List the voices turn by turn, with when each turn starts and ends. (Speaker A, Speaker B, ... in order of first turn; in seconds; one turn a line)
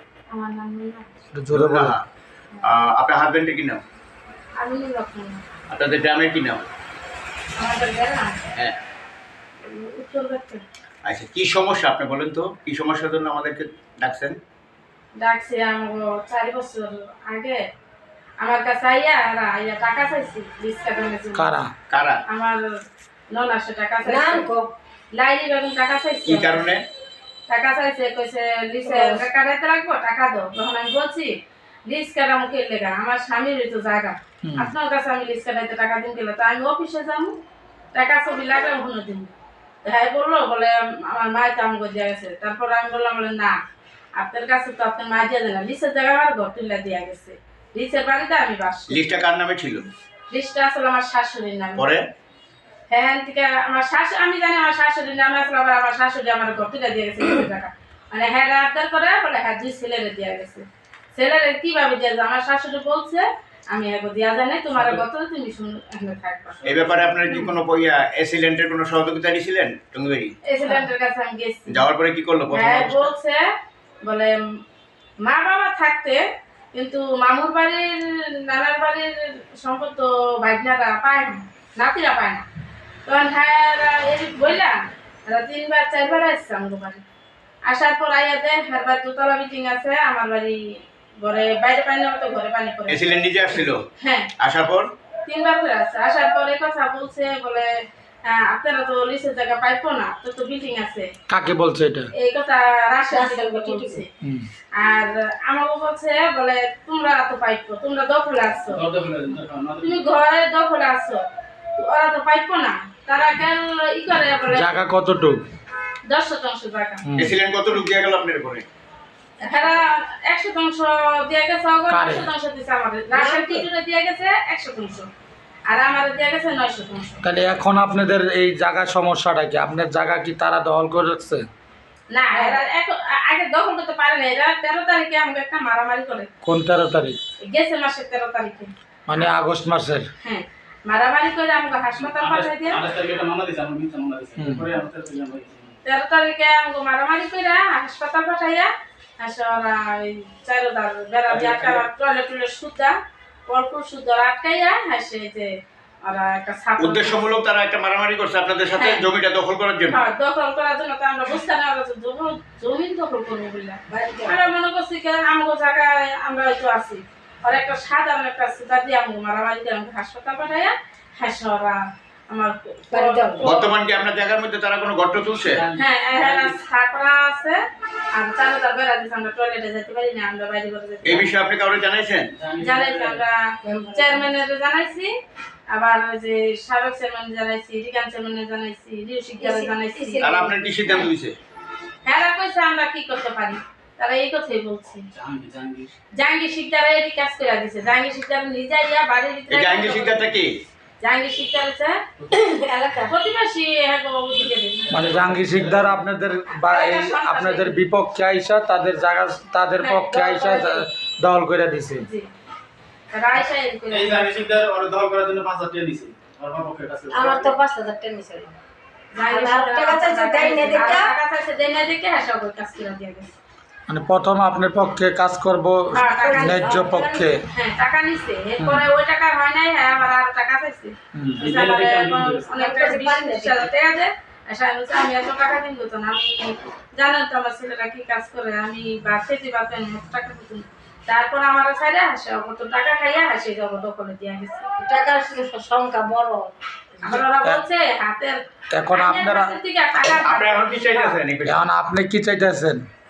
Speaker A: 0.3-1.1
Speaker B: 1.3-1.9
Speaker C: 1.5-2.0
Speaker C: 2.6-3.8
Speaker A: 4.6-5.4
Speaker C: 5.7-6.6
Speaker A: 7.5-8.4
Speaker A: 9.6-10.6
Speaker C: 11.0-14.4
Speaker A: 15.2-17.6
Speaker A: 18.4-21.5
Speaker B: 21.3-21.7
Speaker C: 21.9-22.2
Speaker A: 22.3-22.6
Speaker A: 23.3-24.5
Speaker D: 24.0-24.7
Speaker A: 25.1-26.7
Speaker C: 26.3-26.8
Speaker A: 27.5-31.3
Speaker D: 28.9-29.2
Speaker A: 31.9-37.4
Speaker B: 34.4-34.7
Speaker A: 37.9-39.3
Speaker A: 39.8-43.5
Speaker A: 44.2-49.0
Speaker C: 48.9-49.9
Speaker A: 50.3-51.9
Speaker C: 51.8-52.0
Speaker A: 52.9-66.6
Speaker E: 64.7-65.0
Speaker E: 66.6-67.2
Speaker C: 66.7-70.3
Speaker A: 70.5-71.8
Speaker C: 71.7-73.1
Speaker A: 72.5-73.4
Speaker A: 74.0-74.3
Speaker A: 75.2-76.2
Speaker A: 76.7-82.4
Speaker A: 83.0-84.7
Speaker A: 85.3-87.0
Speaker A: 87.7-90.6
Speaker A: 91.2-93.2
Speaker C: 92.9-93.8
Speaker A: 94.0-94.3
Speaker C: 94.4-94.8
Speaker A: 95.3-97.7
Speaker A: 98.2-101.1
Speaker B: 101.3-102.1
Speaker A: 102.1-104.0
Speaker D: 103.1-104.0
Speaker B: 104.2-104.5
Speaker A: 104.7-108.8
Speaker E: 108.7-110.1
Speaker A: 109.8-111.2
Speaker A: 111.8-114.7
Speaker B: 114.5-115.4
Speaker A: 116.1-117.0
Speaker B: 117.0-117.3
Speaker C: 117.2-118.7
Speaker D: 119.4-119.8
Speaker A: 119.4-125.1
Speaker B: 121.9-122.2
Speaker D: 123.1-123.7
Speaker A: 125.7-127.2
Speaker B: 127.2-131.4
Speaker A: 132.1-136.3
Speaker D: 132.3-132.6
Speaker B: 136.4-137.2
Speaker A: 137.4-138.7
Speaker B: 139.1-140.1
Speaker A: 140.2-142.8
Speaker E: 142.0-145.7
Speaker B: 144.4-144.7
Speaker A: 145.8-152.9
Speaker E: 151.3-151.8
Speaker A: 153.5-155.5
Speaker A: 156.0-157.2
Speaker C: 156.8-160.0
Speaker A: 158.8-159.0
Speaker A: 159.9-171.8
Speaker D: 163.9-164.5
Speaker A: 172.3-173.7
Speaker D: 172.9-173.5
Speaker C: 173.4-175.6
Speaker E: 175.5-176.6
Speaker A: 175.8-177.6
Speaker A: 178.1-181.3
Speaker C: 181.0-182.3
Speaker E: 182.3-183.2
Speaker A: 182.6-183.4
Speaker D: 183.6-184.3
Speaker A: 183.9-185.1
Speaker A: 185.7-190.3
Speaker D: 189.4-191.1
Speaker C: 190.2-191.3
Speaker A: 192.0-195.1
Speaker E: 195.1-195.9
Speaker A: 196.2-200.2
Speaker C: 199.5-200.5
Speaker A: 201.0-202.0
Speaker D: 202.3-203.1
Speaker A: 203.1-204.9
Speaker E: 204.9-206.0
Speaker B: 204.9-212.1
Speaker A: 206.7-207.8
Speaker D: 210.1-210.9
Speaker A: 212.0-212.3
Speaker A: 213.1-214.3
Speaker E: 213.9-217.6
Speaker D: 217.1-218.5
Speaker A: 219.1-223.3
Speaker D: 219.3-221.1
Speaker B: 223.9-227.4
Speaker A: 225.9-226.8
Speaker D: 226.1-227.3
Speaker A: 227.5-244.7
Speaker B: 231.1-231.4
Speaker E: 231.4-232.6
Speaker D: 232.5-233.7
Speaker D: 244.8-247.2
Speaker A: 247.0-248.4
Speaker B: 247.3-247.6
Speaker B: 248.7-249.5
Speaker A: 248.9-250.8
Speaker C: 250.2-251.6
Speaker B: 251.4-252.8